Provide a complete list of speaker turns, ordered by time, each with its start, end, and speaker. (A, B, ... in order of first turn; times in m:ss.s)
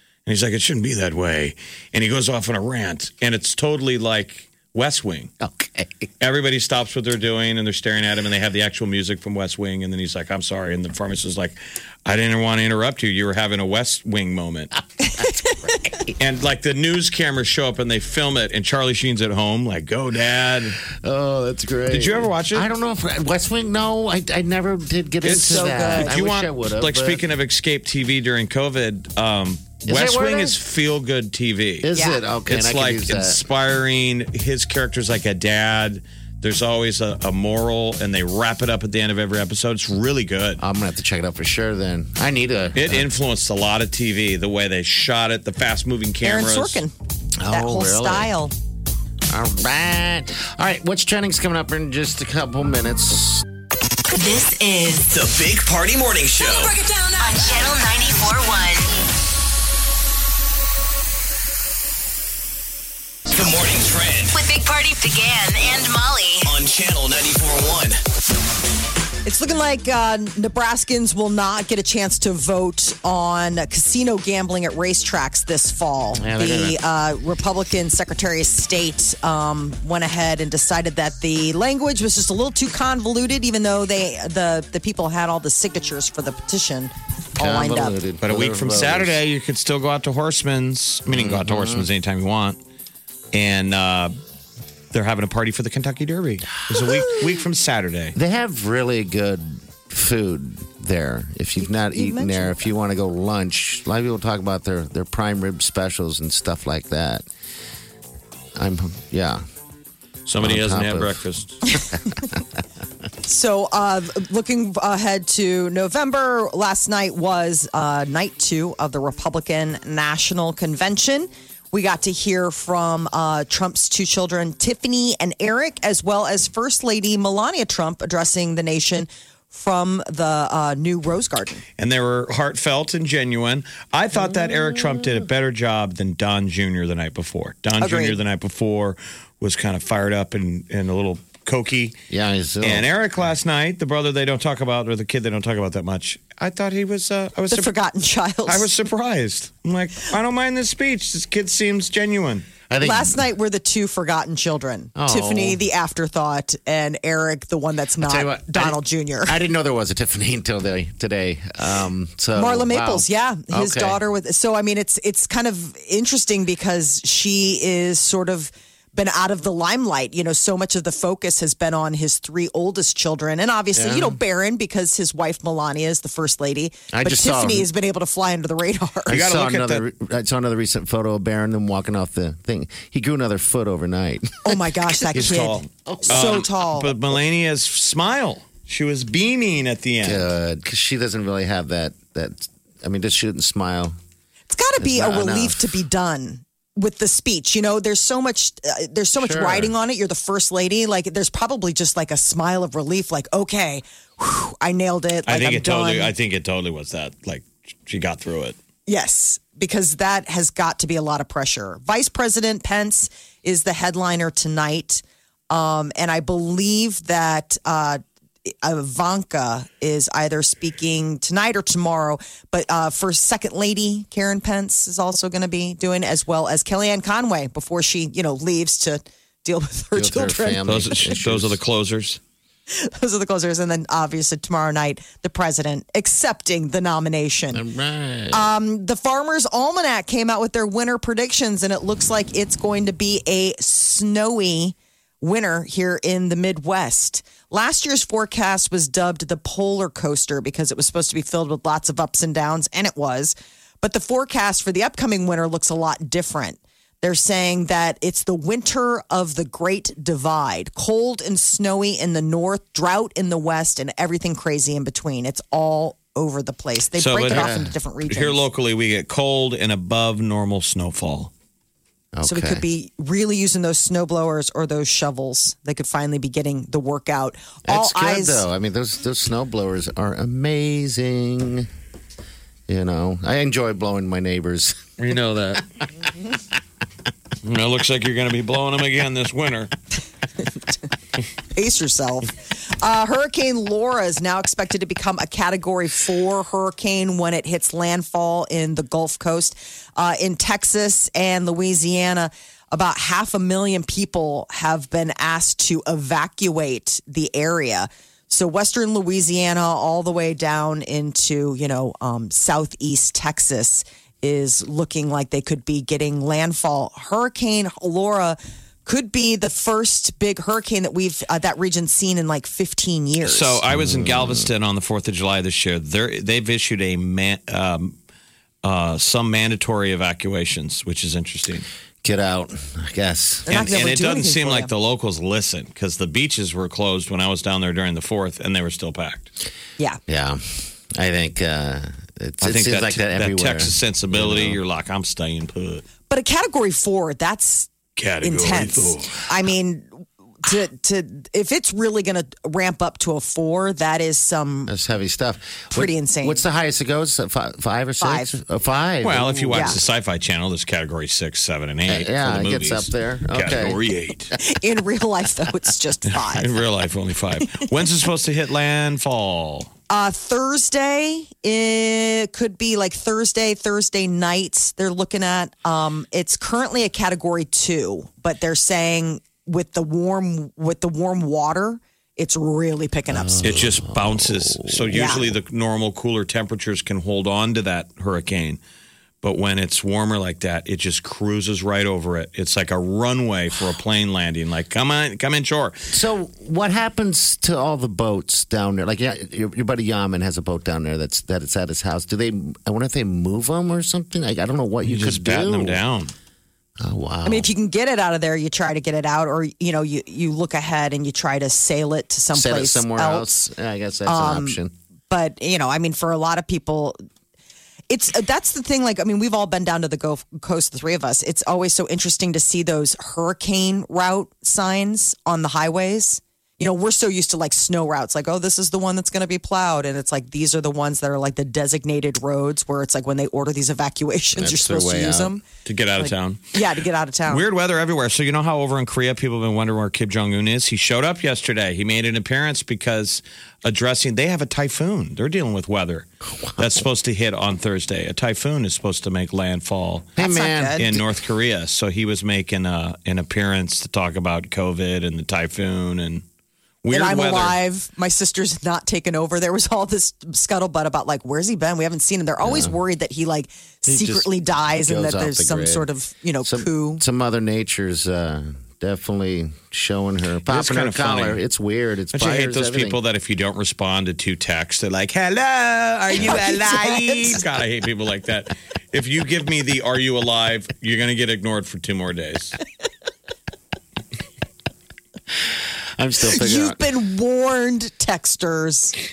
0:00.3-0:05.3 A
0:05.4-0:06.1 B
0:06.2-0:14.7 A
0:15.0-0:15.7 C
0:15.2-0:16.2 B
0:16.2-0:20.8 A
0:20.9-0:27.2 B
0:21.9-0:22.7 A
0:25.2-0:26.2 C
0:25.2-0:31.9 A
0:29.8-0:30.6 B
0:31.8-0:33.4 B
0:31.9-0:32.2 C
0:32.5-0:40.6 A
0:40.6-0:43.1 B
0:42.8-0:46.8 A
0:46.2-0:46.9 C
0:47.4-0:48.3 B
0:47.5-0:48.5 C
0:49.3-0:53.5 B
0:54.1-0:55.2 D
0:55.1-0:56.8 E
0:57.0-0:58.9 D
1:03.3-1:04.4 E
1:04.3-1:06.5 D
1:06.4-1:08.0 E
1:09.2-1:28.0 C
1:16.2-1:16.8 B
1:27.4-1:29.2 B
1:28.2-1:32.6 A
1:31.1-1:31.9 B
1:33.3-1:34.1 A
1:34.9-1:38.2 A
1:36.7-1:37.3 B
1:38.2-1:47.3 B
1:41.6-1:42.7 C
1:48.6-1:49.4 B
1:50.3-1:51.6 A
1:50.4-1:51.2 B
1:53.2-2:11.6 C
2:11.8-2:22.0 A
2:14.1-2:15.3 B
2:17.8-2:18.2 C
2:22.1-2:22.9 B
2:22.6-2:27.7 A
2:27.5-2:28.7 C
2:28.5-2:32.5 A
2:32.7-2:33.2 B
2:32.8-2:39.4 C
2:35.0-2:35.6 B
2:38.0-2:44.0 B
2:42.4-2:59.1 C
2:53.8-2:54.2 B
2:56.9-2:57.7 B
2:59.1-3:05.3 B
2:59.1-2:59.8 A
3:04.4-3:07.0 C
3:05.1-3:10.3 A
3:05.9-3:06.4 B
3:10.0-3:14.0 B
3:14.5-3:26.1 C
3:14.8-3:15.7 B
3:19.2-3:19.7 B
3:25.3-3:28.6 A
3:28.9-3:50.7 C
3:49.9-3:51.6 B
3:50.6-3:52.2 A
3:52.7-3:57.6 C
3:57.5-3:58.5 B
3:58.3-4:28.4 C
4:27.0-4:27.5 A
4:27.3-4:27.7 B
4:28.1-4:31.3 A
4:32.1-4:32.6 B
4:32.2-4:38.4 C
4:37.7-4:41.7 B
4:42.7-4:45.6 B
4:45.0-4:45.6 A
4:47.4-4:49.7 A
4:51.5-5:23.6 C
5:23.2-5:28.0 A
5:23.7-5:24.5 B
5:28.6-5:31.7 A
5:32.0-5:33.6 B
5:33.5-5:34.7 C
5:33.5-5:39.3 A
5:40.1-5:44.6 B
5:42.4-5:45.8 A
5:46.1-5:47.7 C
5:48.0-5:49.2 A
5:48.2-5:54.7 C
5:54.7-5:59.8 B
5:55.7-5:56.4 C
5:58.0-5:58.4 C
5:59.0-6:04.3 A
5:59.5-5:59.8 C
6:01.9-6:03.8 B
6:04.4-6:06.5 C
6:06.1-6:09.7 A
6:09.9-6:23.5 C
6:23.1-6:25.3 B
6:23.4-6:28.6 A
6:24.9-6:25.2 C
6:29.2-6:35.9 A
6:35.9-6:45.8 B
6:44.8-6:46.1 A
6:46.8-6:47.5 B
6:47.2-6:53.5 C
6:52.3-6:54.7 B
6:54.1-6:54.6 C
6:55.1-6:57.0 C
6:57.9-7:15.4 C
7:14.4-7:15.3 B
7:15.6-7:16.4 A
7:16.0-7:17.5 C
7:17.3-7:30.1 A
7:30.2-7:31.1 B
7:30.2-7:30.8 C
7:30.8-7:36.2 A
7:36.8-7:37.6 A
7:36.9-7:47.0 C
7:42.4-7:42.8 B
7:43.9-7:45.9 B
7:46.4-7:53.0 B
7:50.5-7:51.4 A
7:52.1-8:02.6 A
7:56.2-7:57.4 C
8:06.0-8:06.8 B
8:06.3-8:09.0 C